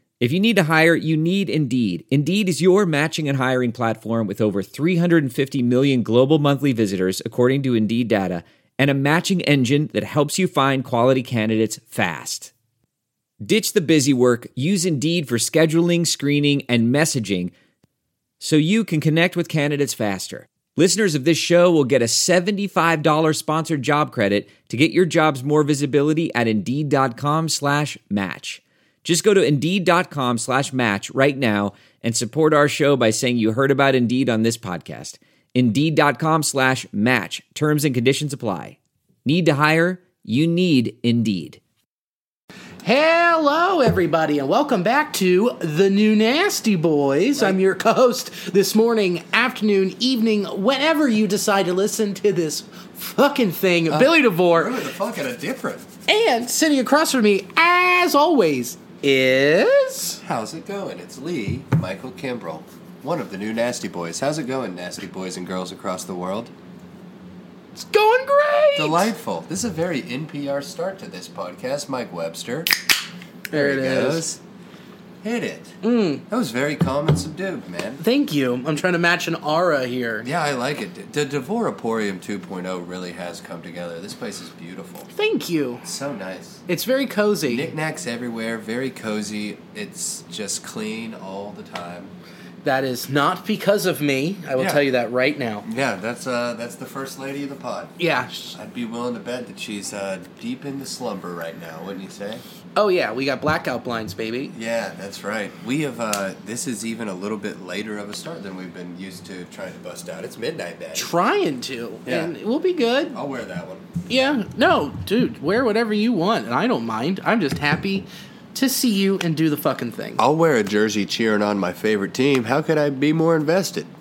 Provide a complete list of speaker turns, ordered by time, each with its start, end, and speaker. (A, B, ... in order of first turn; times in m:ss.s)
0:00.2-0:12.5 A
0:13.4-0:17.5 A
0:18.4-0:41.6 A
0:42.8-0:54.7 B
0:53.9-0:55.9 C
0:56.1-1:00.2 B
1:00.2-1:06.5 C
1:07.7-1:09.1 B
1:08.7-1:12.7 C
1:13.5-1:14.2 B
1:13.5-1:14.4 C
1:15.2-1:18.0 C
1:15.8-1:16.2 B
1:18.0-1:20.3 B
1:20.2-1:25.1 C
1:25.1-1:25.8 B
1:25.8-1:26.6 C
1:26.7-1:27.7 B
1:27.4-1:32.1 C
1:32.6-1:35.6 B
1:34.6-1:34.8 C
1:35.6-1:38.0 C
1:38.0-1:38.6 B
1:38.5-1:42.4 C
1:42.8-1:44.5 B
1:44.5-1:51.1 C
1:51.0-1:53.2 B
1:52.0-1:52.3 C
1:53.1-1:53.9 C
1:54.1-2:00.2 B
2:00.2-2:03.9 C